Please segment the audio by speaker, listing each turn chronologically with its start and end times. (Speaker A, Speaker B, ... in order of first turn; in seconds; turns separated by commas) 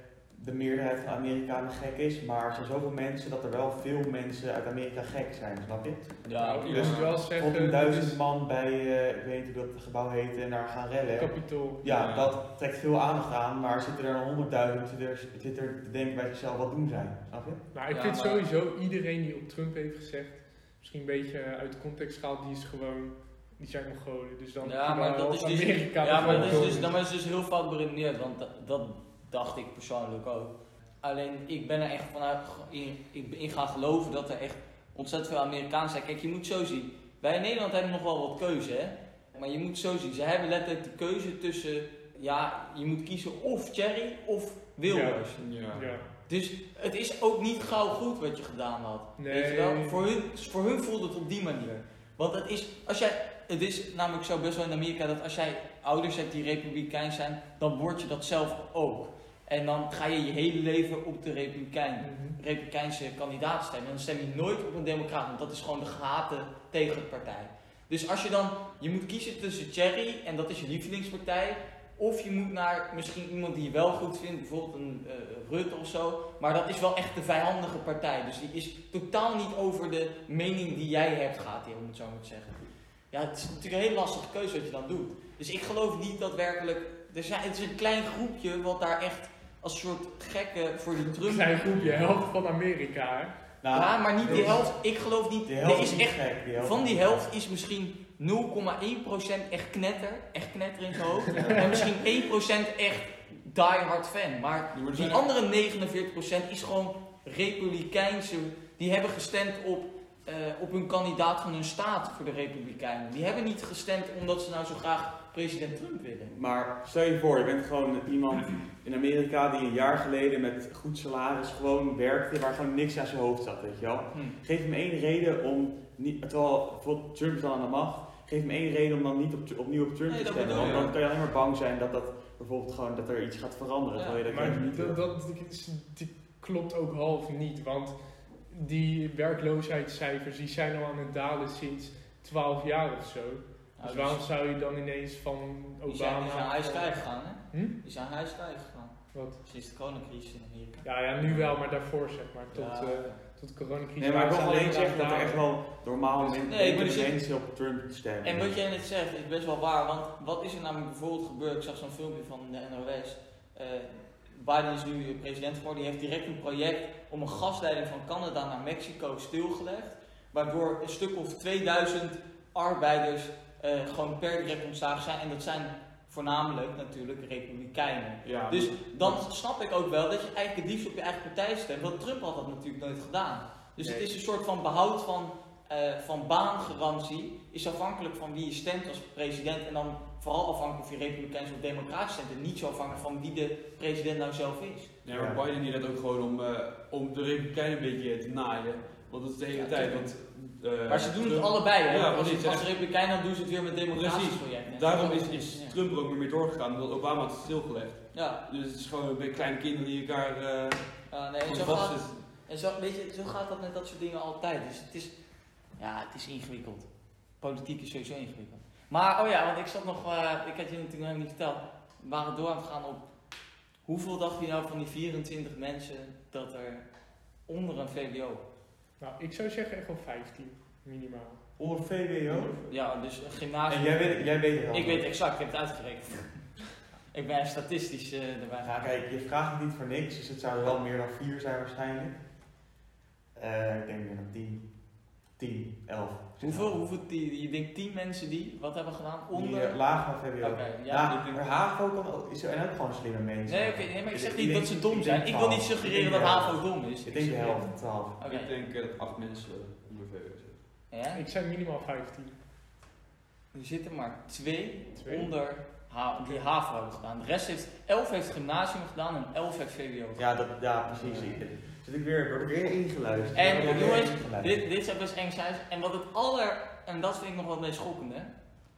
Speaker A: 0.3-6.2, Speaker B: 6.2-6.9, Speaker C: 6.4-8.2, Speaker D: 6.6-7.2, Speaker A: 6.7-17.6, Speaker C: 11.2-11.8, Speaker D: 11.8-12.3, Speaker C: 17.7-26.9, Speaker B: 17.9-18.4, Speaker B: 24.6-45.5, Speaker A: 26.2-26.9, Speaker C: 44.8-46.1, Speaker D: 45.4-45.9, Speaker B: 46.3-82.6, Speaker C: 49.2-50.0, Speaker C: 62.0-62.4, Speaker B: 83.1-91.6, Speaker C: 91.2-93.3, Speaker D: 91.8-92.2, Speaker A: 93.6-94.7, Speaker B: 93.7-116.3, Speaker A: 95.5-97.2, Speaker A: 101.3-101.8, Speaker D: 104.7-105.2, Speaker A: 116.3-135.0, Speaker B: 130.1-130.9, Speaker D: 130.5-130.9, Speaker B: 134.0-134.2, Speaker C: 134.3-138.0, Speaker C: 138.5-146.9, Speaker B: 143.8-144.2, Speaker B: 145.9-150.9, Speaker C: 147.5-147.8, Speaker C: 150.8-155.4, Speaker B: 152.5-153.2, Speaker A: 154.0-158.5, Speaker B: 156.2-157.2, Speaker B: 158.2-194.9, Speaker D: 178.2-179.2, Speaker D: 195.0-202.7, Speaker A: 195.1-195.4, Speaker B: 199.5-200.1, Speaker B: 200.9-205.8, Speaker D: 203.9-212.2, Speaker B: 208.1-208.4, Speaker B: 211.1-215.1, Speaker B: 215.8-216.9, Speaker B: 217.4-223.0, Speaker B: 223.9-226.9, Speaker B: 227.5-228.4, Speaker C: 229.0-231.4, Speaker A: 231.6-232.6, Speaker D: 232.3-232.6, Speaker B: 232.7-238.9, Speaker A: 233.7-235.1, Speaker A: 238.6-242.2, Speaker A: 243.4-244.7, Speaker A: 245.4-246.8, Speaker B: 246.4-249.8, Speaker A: 249.3-258.1, Speaker B: 250.4-251.2, Speaker D: 251.1-251.4, Speaker B: 253.5-257.7, Speaker B: 258.2-258.5, Speaker D: 258.3-260.6, Speaker B: 260.9-261.2, Speaker C: 261.1-262.4, Speaker B: 263.5-270.2, Speaker C: 265.0-265.3, Speaker A: 270.2-274.6, Speaker B: 273.3-278.3, Speaker D: 273.5-274.1